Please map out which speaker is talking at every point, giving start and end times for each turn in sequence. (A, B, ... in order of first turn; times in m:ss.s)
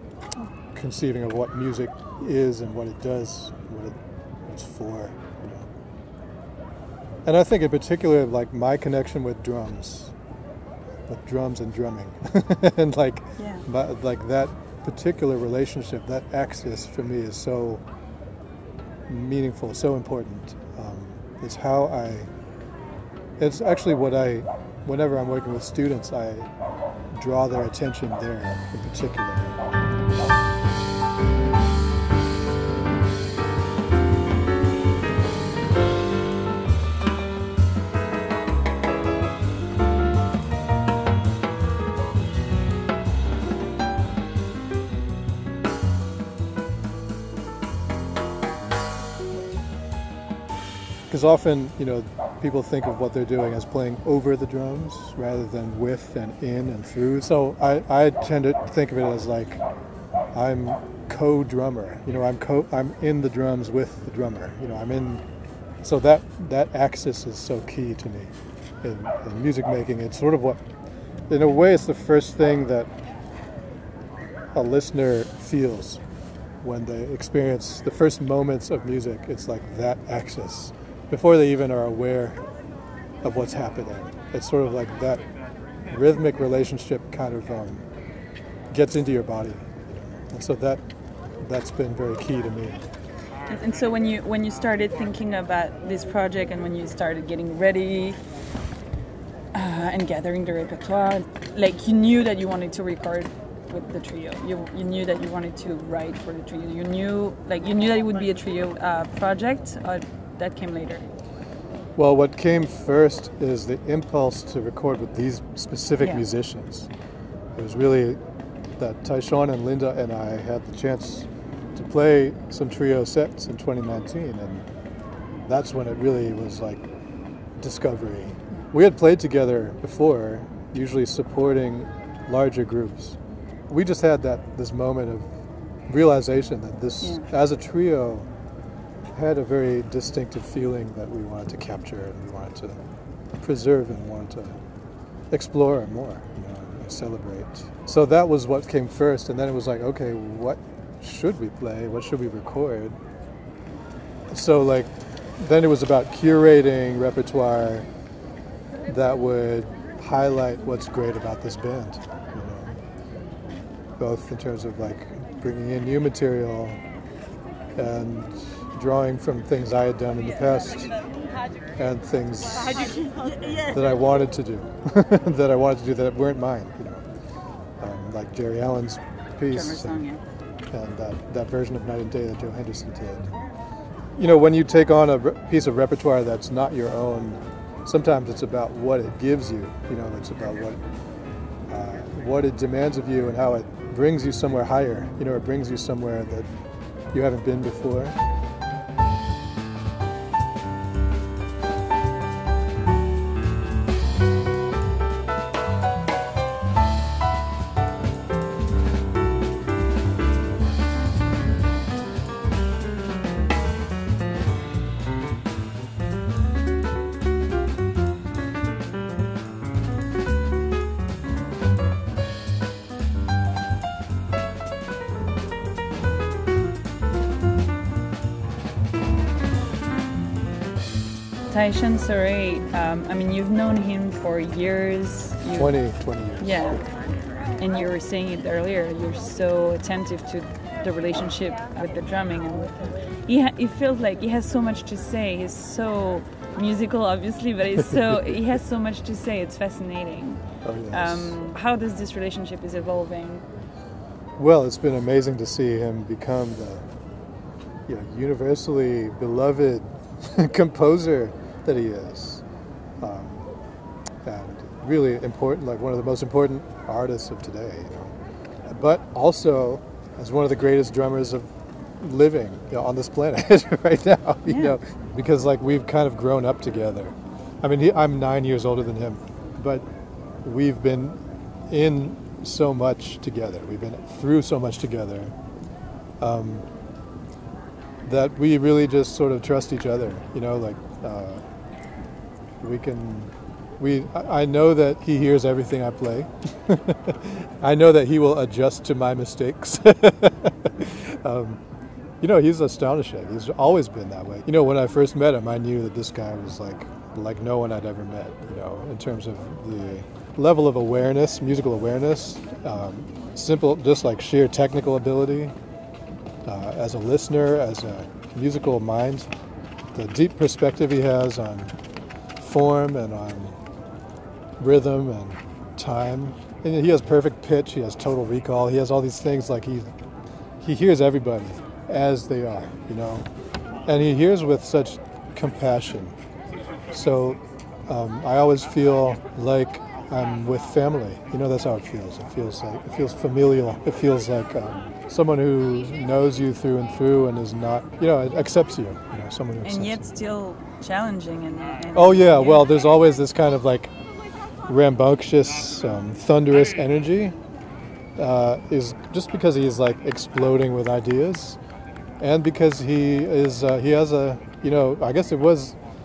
0:00.7-0:05.7 A
0:07.2-0:10.1 A
0:11.1-0:17.8 A
0:13.4-0:13.7 B
0:19.1-0:22.3 A
0:23.4-0:26.5 A
0:27.1-0:29.6 A
0:51.1-0:59.6 A
1:00.3-1:05.2 A
1:05.8-1:10.6 A
1:11.3-1:12.9 A
1:14.5-1:16.0 A
1:16.6-1:22.4 A
1:23.2-1:25.3 A
1:25.9-1:27.8 A
1:28.7-1:30.8 A
1:31.4-1:32.9 A
1:33.5-1:38.2 B
1:39.5-1:51.0 B
1:52.0-1:56.9 A
1:56.0-1:56.2 B
1:57.5-1:58.2 A
1:58.8-2:04.7 A
2:05.4-2:06.9 A
2:07.6-2:15.3 A
2:15.9-2:18.3 A
2:19.1-2:22.8 A
2:23.3-2:24.6 A
2:25.3-2:33.0 A
2:34.3-2:37.9 A
2:38.8-2:42.8 A
2:44.0-2:46.8 A
2:47.8-2:51.0 A
2:51.8-2:57.0 A
2:57.8-3:00.0 A
2:59.5-3:00.2 B
3:00.7-3:03.3 A
3:04.2-3:10.8 A
3:11.7-3:16.5 A
3:17.1-3:18.2 A
3:51.5-3:55.8 B
3:55.5-3:56.8 A
3:56.4-3:56.8 B
3:57.6-4:13.5 B
4:07.8-4:08.4 A
4:10.6-4:11.4 A
4:14.4-4:16.9 A
4:17.9-4:22.4 A
4:23.0-4:23.5 A
4:24.2-4:28.1 A
4:28.6-4:39.9 A
4:34.5-4:34.8 B
4:40.4-4:45.3 A
4:46.2-4:46.6 A
4:48.0-4:51.4 A
4:52.6-5:01.6 A
5:02.2-5:15.6 A
5:16.4-5:19.3 A
5:19.9-5:21.8 A
5:22.4-5:23.6 A
5:24.6-5:29.9 A
5:30.6-5:33.3 A
5:33.9-5:36.2 A
5:36.9-5:50.1 A
5:49.6-5:52.7 B
5:51.9-5:53.9 A
5:54.7-5:57.4 A
5:58.2-6:01.6 A
6:02.2-6:05.8 A